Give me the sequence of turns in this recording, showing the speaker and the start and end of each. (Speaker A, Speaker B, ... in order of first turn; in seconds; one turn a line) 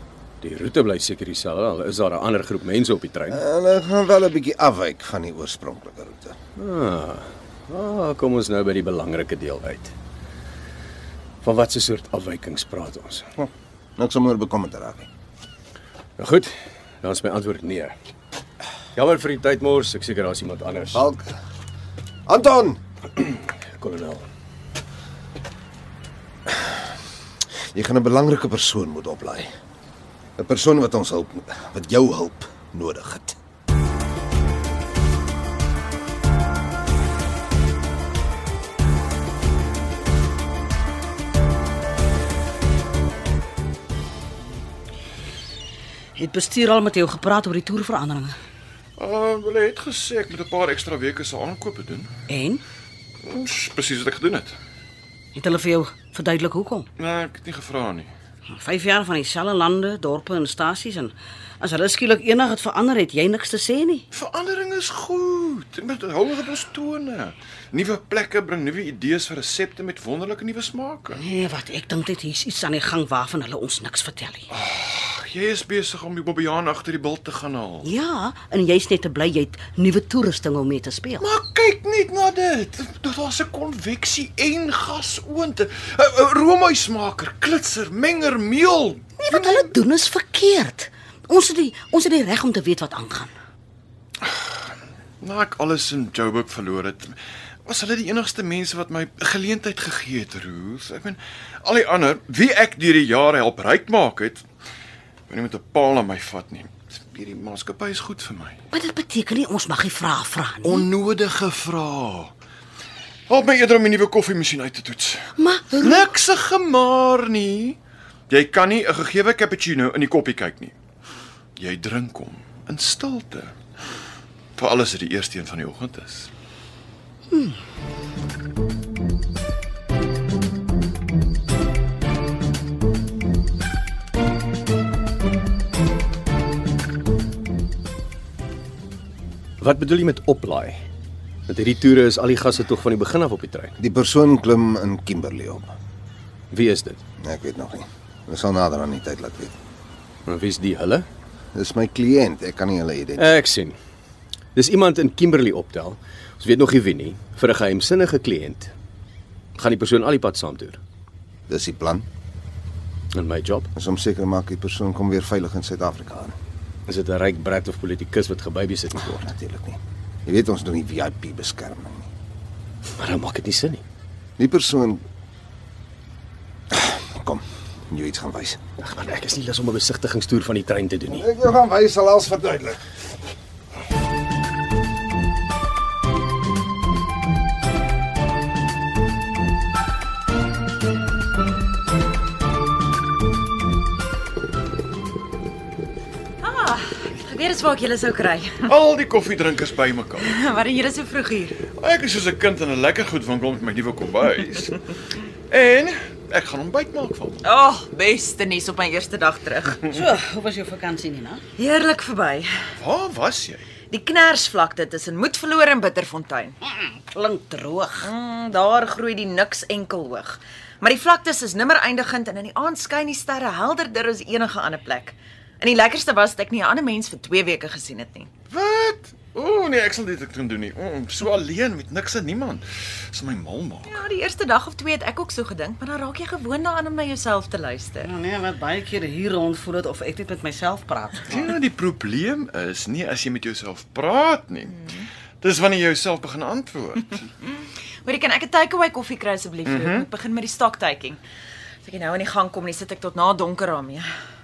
Speaker A: 0.4-3.4
Speaker B: 3.3-6.4
Speaker A: 6.6-9.9
Speaker A: 11.4-13.3
Speaker B: 13.4-15.1
Speaker A: 16.2-17.9
Speaker A: 18.9-21.1
Speaker B: 20.9-21.3
Speaker B: 22.3-22.8
Speaker A: 23.2-24.3
Speaker B: 27.7-29.5
Speaker B: 30.4-33.4
Speaker C: 46.2-48.4
Speaker D: 49.0-52.1
Speaker C: 52.3-52.6
Speaker D: 53.2-54.6
Speaker C: 55.4-56.9
Speaker D: 57.0-58.1
Speaker C: 58.5-64.0
Speaker D: 64.1-71.2
Speaker C: 71.2-74.5
Speaker D: 74.5-77.9
Speaker C: 77.8-81.2
Speaker D: 81.2-89.7
Speaker C: 89.2-93.3
Speaker D: 94.2-94.5
Speaker D: 95.2-104.4
Speaker D: 105.3-108.6
Speaker C: 108.7-110.9
Speaker D: 110.6-112.3
Speaker D: 113.3-117.8
Speaker C: 115.4-116.1
Speaker D: 118.3-120.8
Speaker D: 121.6-123.5
Speaker D: 124.6-126.3
Speaker A: 139.6-140.8
Speaker A: 141.5-143.8
Speaker B: 143.8-145.7
Speaker A: 146.5-147.0
Speaker B: 147.2-149.5
Speaker A: 150.3-151.1
Speaker B: 151.6-153.4
Speaker A: 153.2-153.8
Speaker A: 154.6-158.7
Speaker A: 159.6-160.8
Speaker B: 161.5-162.1
Speaker A: 163.1-163.7
Speaker B: 163.8-166.3
Speaker A: 166.9-169.2
Speaker B: 169.0-172.1
Speaker A: 172.9-173.8
Speaker B: 174.4-175.0
Speaker B: 176.7-178.6
Speaker A: 178.8-181.3
Speaker B: 181.1-182.8
Speaker E: 196.4-198.7
Speaker D: 198.7-200.3
Speaker E: 200.2-201.6
Speaker D: 201.7-204.8
Speaker D: 205.5-207.4
Speaker E: 207.4-209.9
Speaker C: 209.9-211.4
Speaker E: 211.6-212.5
Speaker D: 212.8-213.7
Speaker E: 213.9-216.6
Speaker C: 216.8-218.1
Speaker E: 218.0-228.3
Speaker D: 228.5-234.0
Speaker E: 233.9-238.1
Speaker C: 238.0-241.4
Speaker D: 241.3-244.8
Speaker D: 245.4-247.2
Speaker E: 247.5-251.2
Speaker D: 249.7-250.1
Speaker E: 251.8-254.1